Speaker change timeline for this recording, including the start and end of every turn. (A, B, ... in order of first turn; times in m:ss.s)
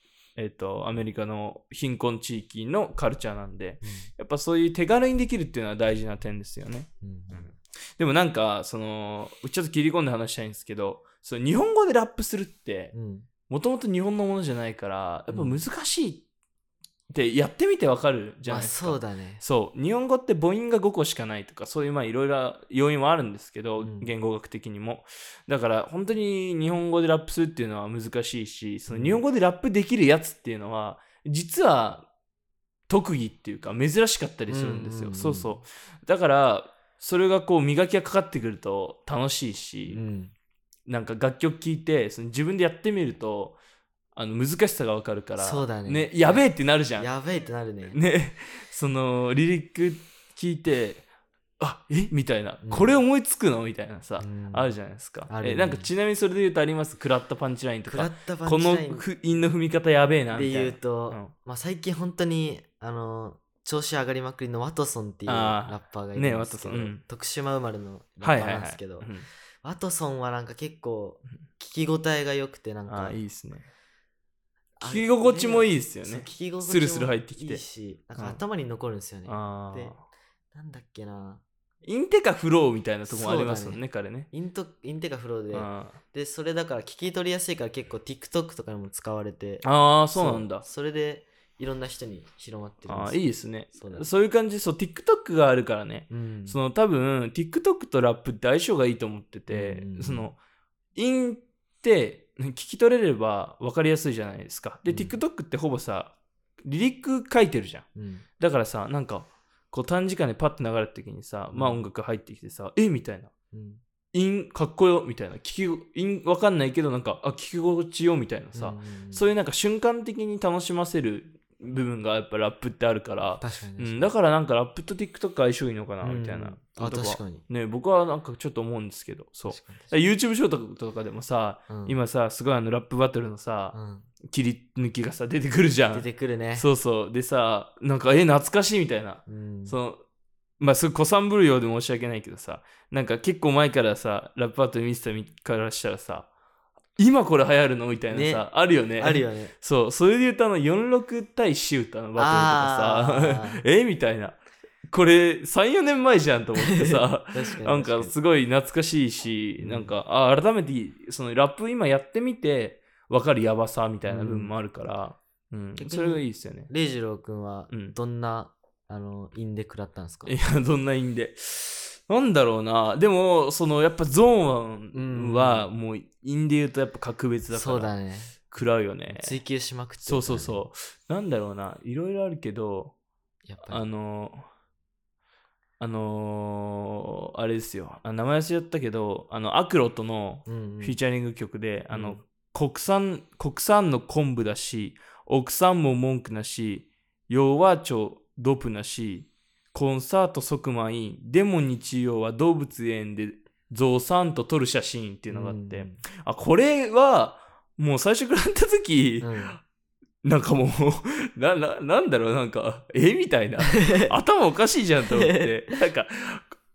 0:00.4-0:12.9 A
0:03.8-0:04.1 B
0:07.0-0:07.5 B
0:12.9-0:13.3 B
0:13.5-0:16.2 A
0:15.3-0:15.6 B
0:17.1-0:32.1 A
0:18.4-0:19.4 B
0:23.8-0:24.1 B
0:28.9-0:29.2 B
0:32.9-0:40.0 A
0:34.5-0:35.5 B
0:39.9-0:40.3 B
0:40.9-0:43.6 A
0:44.1-0:47.1 A
0:45.4-0:48.0 B
0:47.9-0:51.0 A
0:51.6-1:01.3 A
0:52.6-0:53.0 B
0:54.2-0:54.7 B
0:55.3-0:55.9 B
0:57.9-0:59.0 B
1:00.3-1:09.1 B
1:05.3-1:07.0 A
1:08.2-1:09.3 A
1:09.6-1:13.2 B
1:12.9-1:13.7 A
1:14.8-1:20.0 B
1:14.8-1:17.6 A
1:19.2-1:20.0 A
1:20.5-1:21.4 B
1:21.8-1:24.3 A
1:23.0-1:34.1 B
1:25.5-1:26.0 A
1:29.6-1:30.6 A
1:32.9-1:40.4 A
1:36.1-1:36.6 B
1:39.5-1:40.3 B
1:41.0-1:47.9 A
1:44.9-1:45.2 B
1:48.0-1:48.2 B
1:48.4-1:53.3 A
1:51.5-1:51.8 B
1:53.5-1:53.8 B
1:54.1-2:20.0 A
1:58.5-1:59.3 B
2:03.4-2:04.1 B
2:06.0-2:07.4 B
2:09.5-2:09.9 B
2:11.7-2:12.0 B
2:13.7-2:14.1 B
2:15.9-2:16.7 B
2:19.3-2:19.8 B
2:20.6-2:26.3 A
2:27.0-2:34.4 A
2:28.1-2:28.4 B
2:29.0-2:29.5 B
2:32.2-2:33.6 B
2:34.9-2:46.7 A
2:36.6-2:38.1 B
2:39.6-2:39.9 B
2:44.0-2:44.5 B
2:45.8-2:50.3 B
2:47.7-2:48.0 A
2:50.2-2:59.4 A
2:54.9-2:55.7 B
2:57.5-2:58.4 B
2:59.1-3:00.6 B
3:00.0-3:02.9 A
3:03.4-3:03.8 B
3:03.7-3:04.4 A
3:05.8-3:29.6 A
3:10.5-3:11.0 B
3:11.9-3:12.2 B
3:25.3-3:26.0 B
3:29.2-3:29.6 B
3:30.2-3:36.4 A
3:33.6-3:34.1 B
3:35.0-3:35.8 B